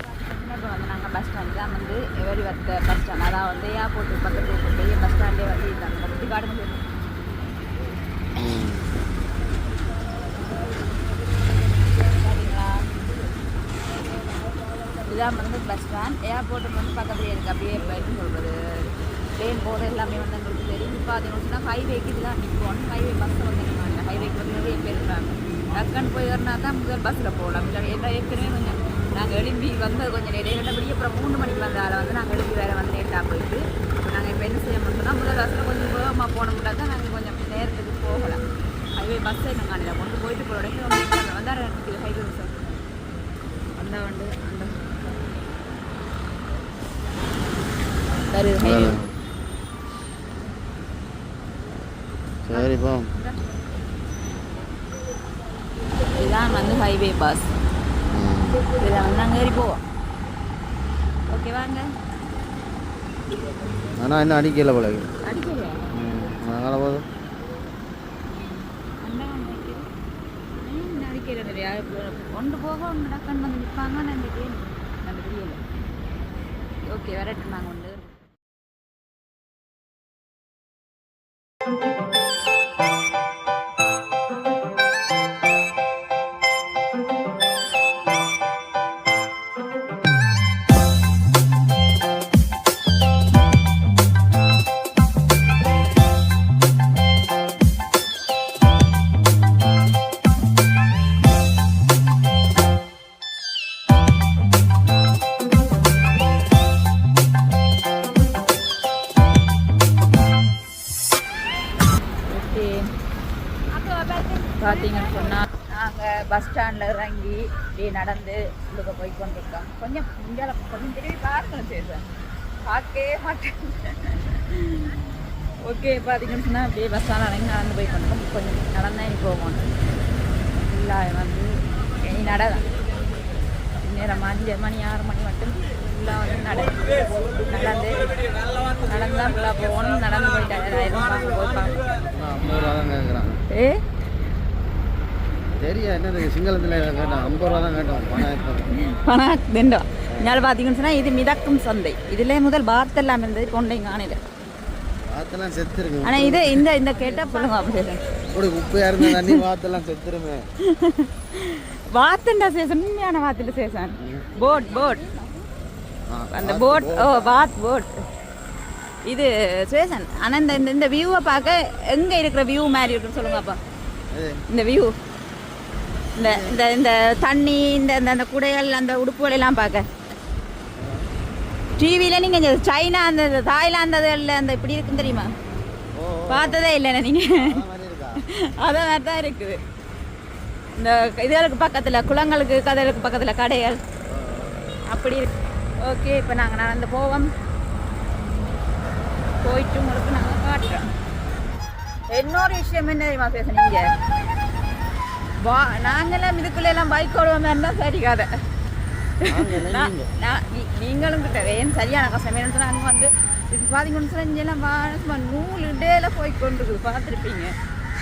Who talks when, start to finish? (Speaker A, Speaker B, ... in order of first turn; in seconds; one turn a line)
Speaker A: 0.2-6.9
Speaker B: 8.3-8.9
Speaker A: 12.1-12.8
Speaker A: 15.1-38.4
Speaker A: 39.0-42.8
Speaker A: 43.8-44.7
Speaker A: 48.3-49.0
Speaker B: 48.6-49.1
Speaker B: 52.4-53.1
Speaker A: 52.5-53.4
Speaker A: 56.2-57.5
Speaker B: 58.1-58.6
Speaker A: 58.8-59.8
Speaker A: 61.3-61.9
Speaker B: 64.0-65.1
Speaker A: 65.2-65.8
Speaker B: 65.9-67.0
Speaker A: 68.3-69.8
Speaker A: 70.5-75.6
Speaker A: 76.9-78.1
Speaker A: 112.3-112.8
Speaker A: 114.4-122.0
Speaker A: 122.7-125.0
Speaker A: 125.6-129.7
Speaker A: 130.6-132.6
Speaker A: 133.8-138.2
Speaker A: 138.8-141.9
Speaker B: 142.1-143.4
Speaker A: 143.5-143.8
Speaker B: 145.5-148.7
Speaker A: 148.7-154.2
Speaker B: 155.0-156.6
Speaker A: 156.0-158.0
Speaker B: 158.3-160.4
Speaker A: 159.0-159.4
Speaker A: 160.6-165.2
Speaker B: 164.0-164.2
Speaker B: 166.1-167.4
Speaker A: 166.3-167.9
Speaker A: 169.1-173.6
Speaker B: 174.1-174.4
Speaker A: 174.5-174.9
Speaker A: 176.2-179.8
Speaker B: 176.2-176.6
Speaker B: 180.8-181.0
Speaker A: 181.8-185.3
Speaker B: 185.9-186.6
Speaker A: 186.3-187.6
Speaker B: 187.4-188.2
Speaker A: 188.2-189.6
Speaker A: 190.8-193.8
Speaker B: 194.1-194.7
Speaker A: 194.9-197.3
Speaker A: 199.4-200.8
Speaker A: 202.1-203.8
Speaker A: 205.4-208.3
Speaker A: 209.2-217.5
Speaker B: 209.3-210.1